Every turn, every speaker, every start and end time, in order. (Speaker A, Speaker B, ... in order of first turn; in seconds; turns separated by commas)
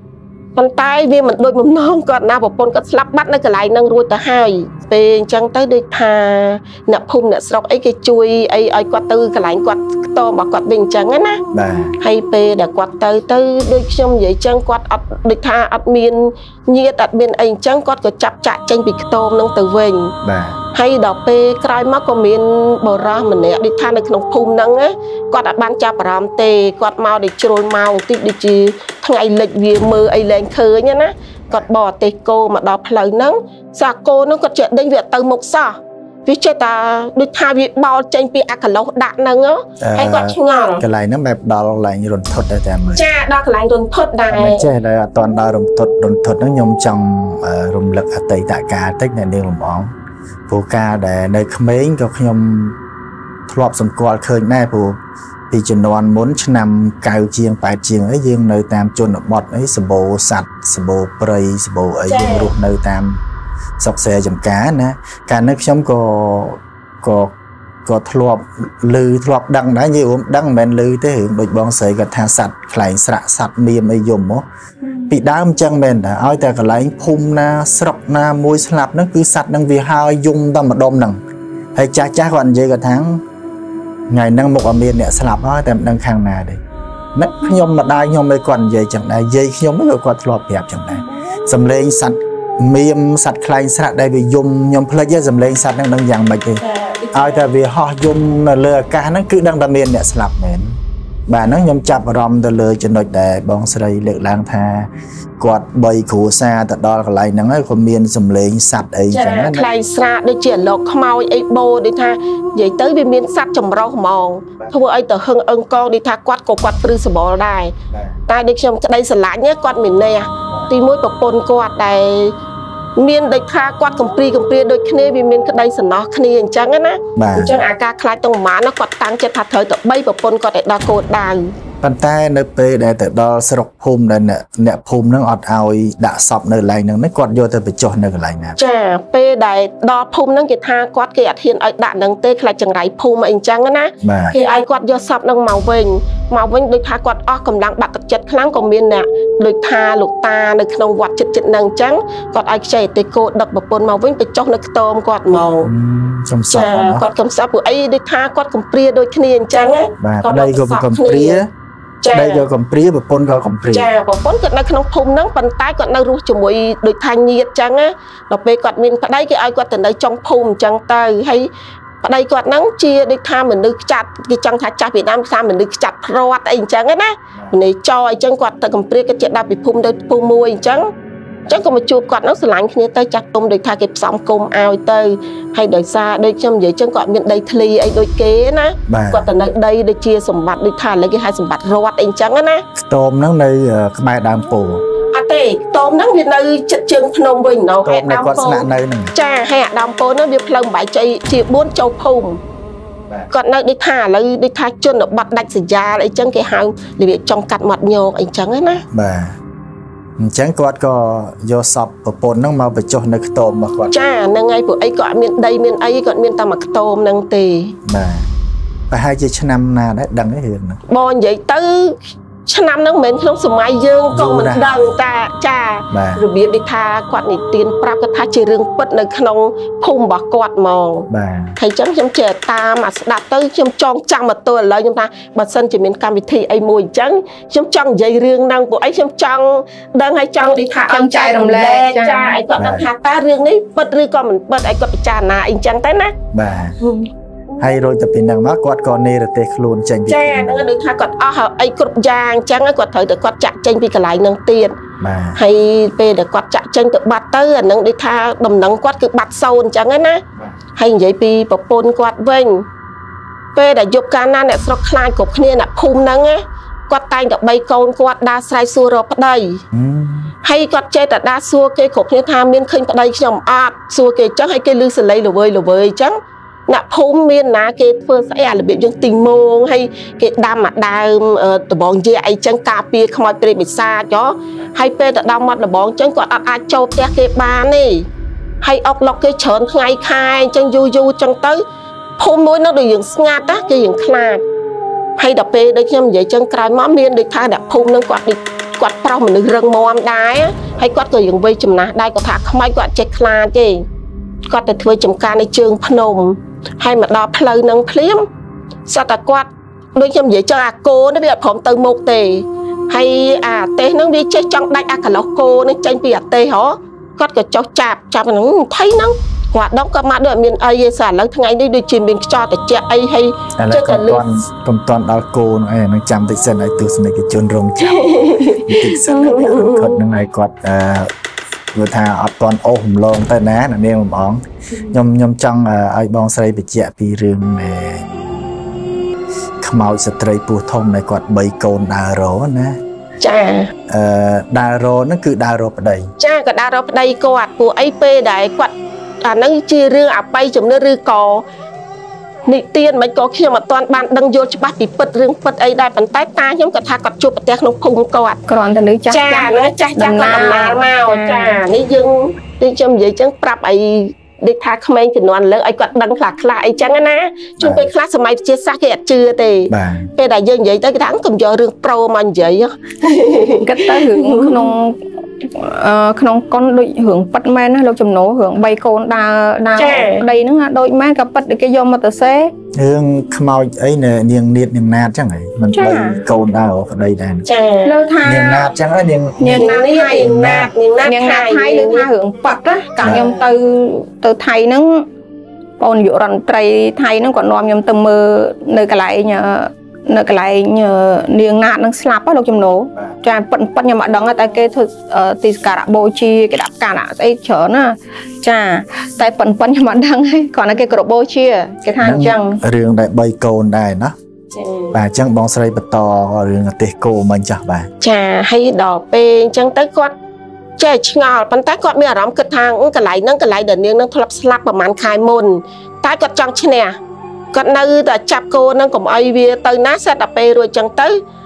Speaker A: 0.6-11.4, Speaker B: 11.5-11.9, Speaker A: 12.0-20.1, Speaker B: 20.2-20.6, Speaker A: 20.7-40.8, Speaker B: 39.8-43.0, Speaker A: 43.0-44.7, Speaker B: 44.3-49.9, Speaker B: 50.5-52.8, Speaker B: 53.5-55.0, Speaker B: 55.5-63.2, Speaker A: 62.1-62.5, Speaker B: 63.8-67.3, Speaker B: 67.8-74.5, Speaker B: 75.1-81.2, Speaker B: 81.8-83.2, Speaker B: 84.1-86.6, Speaker B: 87.2-96.6, Speaker A: 96.6-97.5, Speaker B: 97.1-109.7, Speaker A: 109.1-117.7, Speaker B: 117.9-118.2, Speaker A: 118.3-122.3, Speaker A: 123.0-131.5, Speaker B: 127.2-127.6, Speaker B: 131.8-138.6, Speaker A: 138.6-155.7, Speaker B: 144.0-144.4, Speaker B: 155.4-157.1, Speaker A: 156.5-161.4, Speaker B: 160.0-161.5, Speaker A: 162.0-162.4, Speaker B: 162.1-163.9, Speaker A: 163.7-171.5, Speaker A: 172.0-180.9, Speaker A: 181.5-192.6, Speaker B: 188.9-189.3, Speaker B: 192.8-194.8, Speaker A: 195.1-202.4, Speaker B: 197.8-199.2, Speaker A: 203.3-208.8, Speaker B: 208.9-209.4, Speaker B: 210.2-213.9, Speaker A: 213.9-217.8, Speaker B: 217.8-218.3, Speaker B: 218.9-220.8, Speaker A: 220.9-246.1, Speaker B: 224.1-224.9, Speaker B: 225.9-226.2, Speaker B: 231.1-231.6, Speaker C: 240.9-242.4, Speaker B: 242.6-242.9, Speaker B: 246.3-246.8, Speaker A: 246.8-247.1, Speaker B: 247.6-250.6, Speaker A: 250.1-254.8, Speaker B: 255.0-255.4, Speaker A: 255.4-260.2, Speaker A: 260.8-262.7, Speaker A: 263.6-269.6, Speaker B: 269.7-270.3, Speaker A: 270.4-288.1, Speaker A: 288.6-291.6, Speaker A: 292.2-294.4, Speaker A: 295.2-303.9, Speaker A: 304.5-308.3, Speaker A: 308.9-324.2, Speaker B: 323.6-331.1, Speaker A: 327.8-330.0, Speaker B: 331.7-338.1, Speaker B: 339.6-342.8, Speaker A: 343.2-343.7, Speaker B: 343.9-346.1, Speaker A: 346.2-351.4, Speaker A: 352.5-358.4, Speaker C: 358.5-361.6, Speaker A: 359.1-374.7, Speaker B: 367.6-367.9, Speaker B: 369.7-370.1, Speaker C: 373.6-382.5, Speaker A: 379.8-380.2, Speaker B: 382.8-387.4, Speaker C: 385.7-386.2, Speaker A: 387.5-388.0, Speaker C: 387.9-388.7, Speaker B: 388.2-390.7, Speaker C: 389.4-390.4, Speaker A: 389.6-392.1, Speaker C: 391.0-395.1, Speaker B: 393.0-393.3, Speaker C: 395.8-412.6, Speaker B: 412.0-414.1, Speaker A: 414.5-414.9, Speaker B: 414.9-417.9, Speaker A: 418.0-420.1, Speaker A: 420.8-427.0, Speaker A: 427.5-431.2